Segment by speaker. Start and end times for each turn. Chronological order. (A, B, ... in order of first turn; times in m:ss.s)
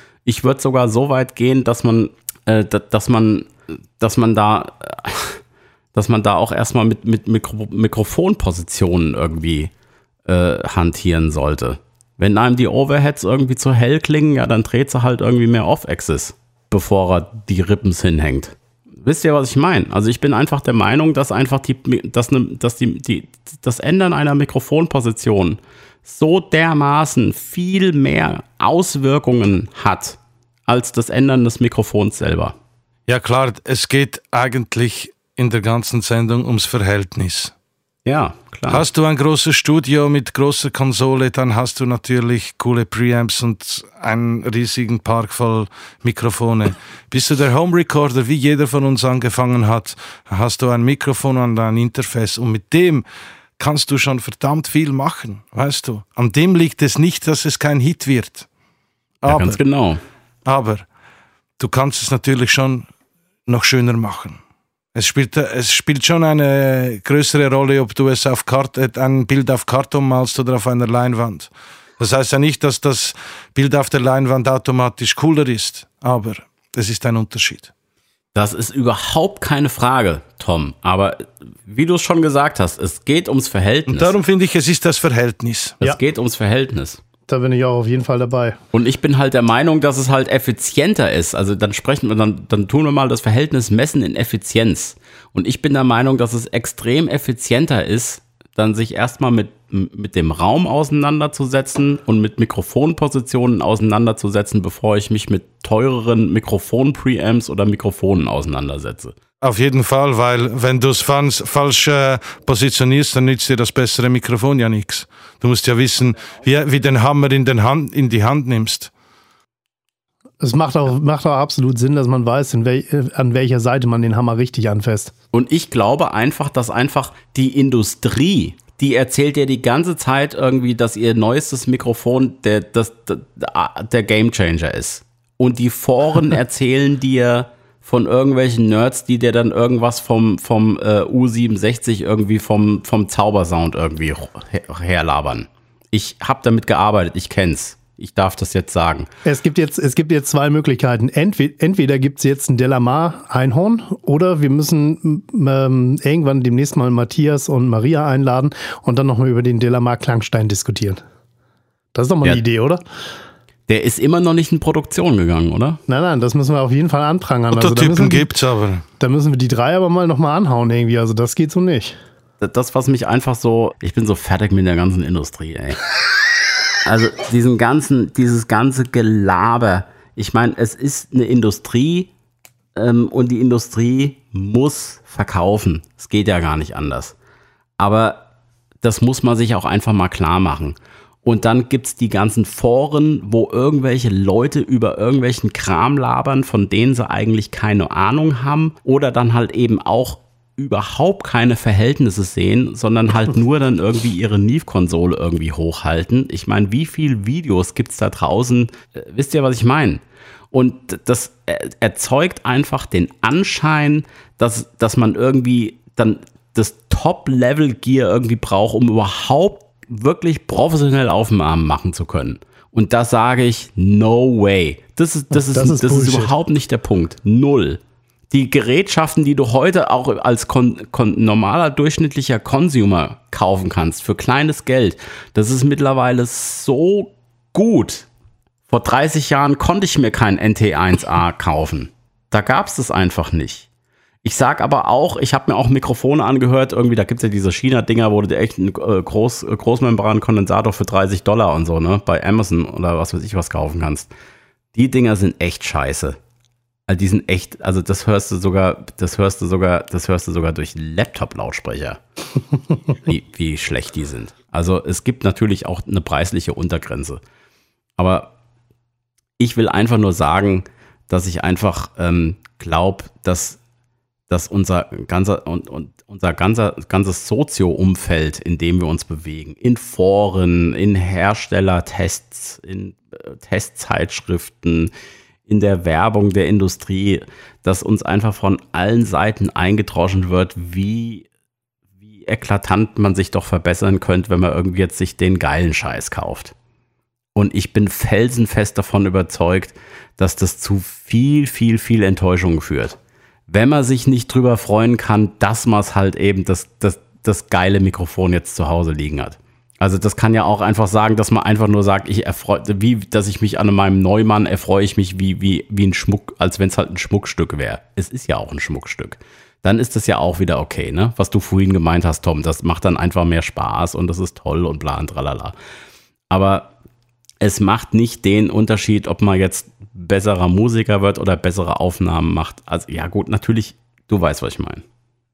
0:00.2-0:05.4 A
0:05.9-0:09.7 A
0:10.3-0:32.6 A
0:33.1-0:37.5 B
0:38.0-0:38.8 A
0:38.7-0:53.0 B
0:53.6-0:58.5 B
0:59.2-0:59.6 B
0:59.2-1:00.0 A
1:00.5-1:00.8 B
1:01.6-1:02.9 B
1:03.5-1:04.4 B
1:05.0-1:17.7 B
1:18.3-1:24.1 A
1:23.9-1:25.8 B
1:25.8-1:27.0 A
1:27.3-1:28.6 C
1:28.7-1:49.2 A
1:49.4-1:58.9 B
2:00.4-2:05.1 C
2:05.3-2:29.1 A
2:29.2-2:41.0 C
2:41.9-2:42.8 C
2:43.7-2:45.8 A
2:45.9-2:48.3 C
2:47.5-2:48.8 B
2:49.0-2:52.0 C
2:52.4-2:55.8 A
2:56.8-3:02.1 A
3:02.8-3:07.2 A
3:07.8-3:08.2 A
3:08.8-3:58.1 A
3:45.3-3:46.3 C
3:58.7-4:03.7 A
4:04.2-4:14.1 A
4:14.7-4:16.2 A
4:16.9-4:22.0 A
4:22.9-4:27.2 A
4:28.0-4:28.3 A
4:29.4-4:33.6 A
4:34.3-4:44.9 A
4:45.5-4:51.3 A
4:52.0-4:56.5 A
4:57.4-5:03.0 A
5:03.5-5:25.6 A
5:26.3-5:26.7 A
5:27.4-5:34.8 A